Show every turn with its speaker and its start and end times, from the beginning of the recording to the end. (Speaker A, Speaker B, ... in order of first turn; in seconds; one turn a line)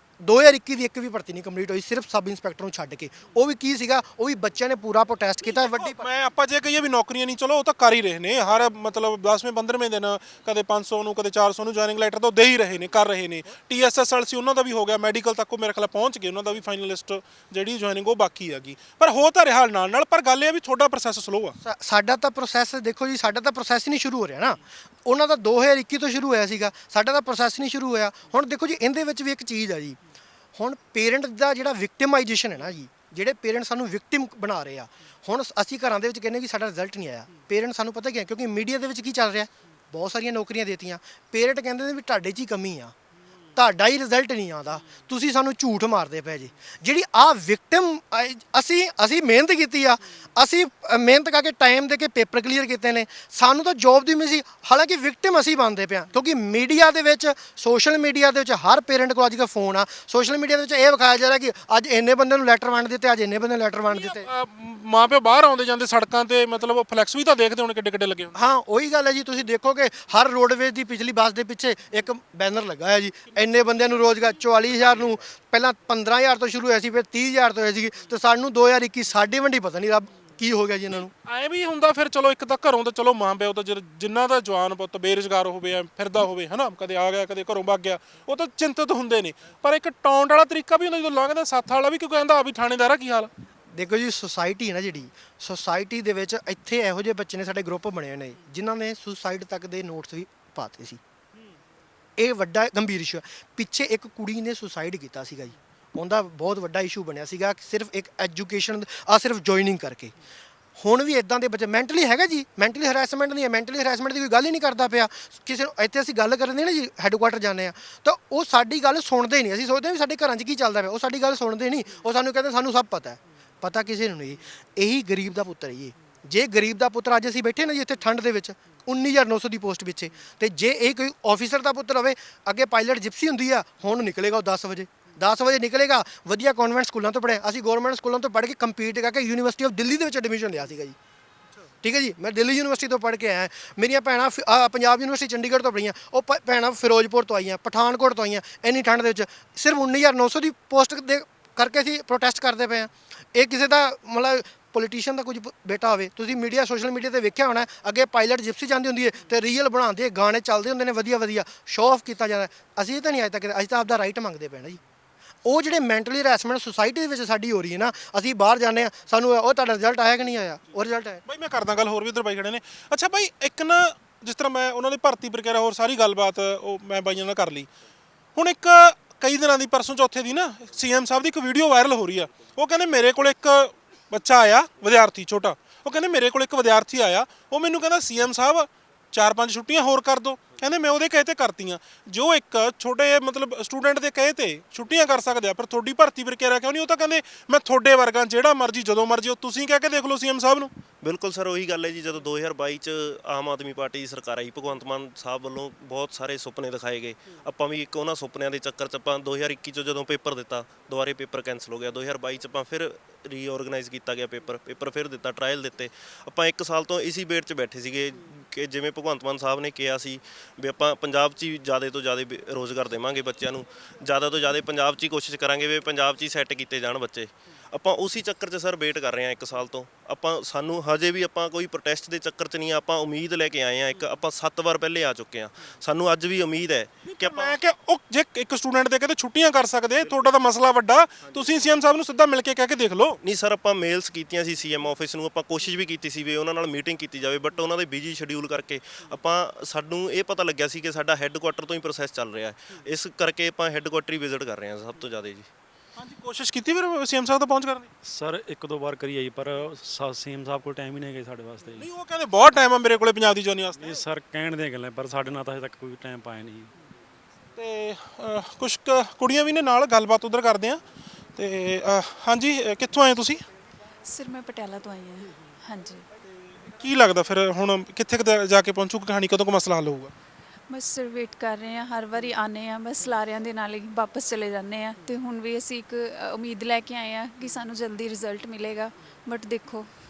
Speaker A: 0.2-6.1
Speaker B: 5.5-21.6
Speaker A: 21.6-30.0
Speaker A: 30.6-43.0
Speaker A: 43.5-64.3
Speaker B: 63.9-68.3
Speaker A: 68.4-81.1
Speaker B: 81.2-93.3
Speaker A: 93.7-101.0
Speaker A: 102.2-110.1
Speaker A: 110.8-141.0
Speaker A: 141.8-164.8
Speaker A: 165.4-171.2
Speaker B: 171.3-177.7
Speaker B: 178.3-200.7
Speaker C: 201.0-237.6
Speaker B: 237.1-243.2
Speaker C: 243.2-255.5
Speaker B: 256.0-257.9
Speaker D: 258.0-261.9
Speaker B: 261.8-264.0
Speaker D: 263.8-266.7
Speaker B: 267.6-270.8
Speaker B: 271.4-273.4
Speaker E: 274.1-276.1
Speaker B: 276.7-280.1
Speaker E: 280.7-289.9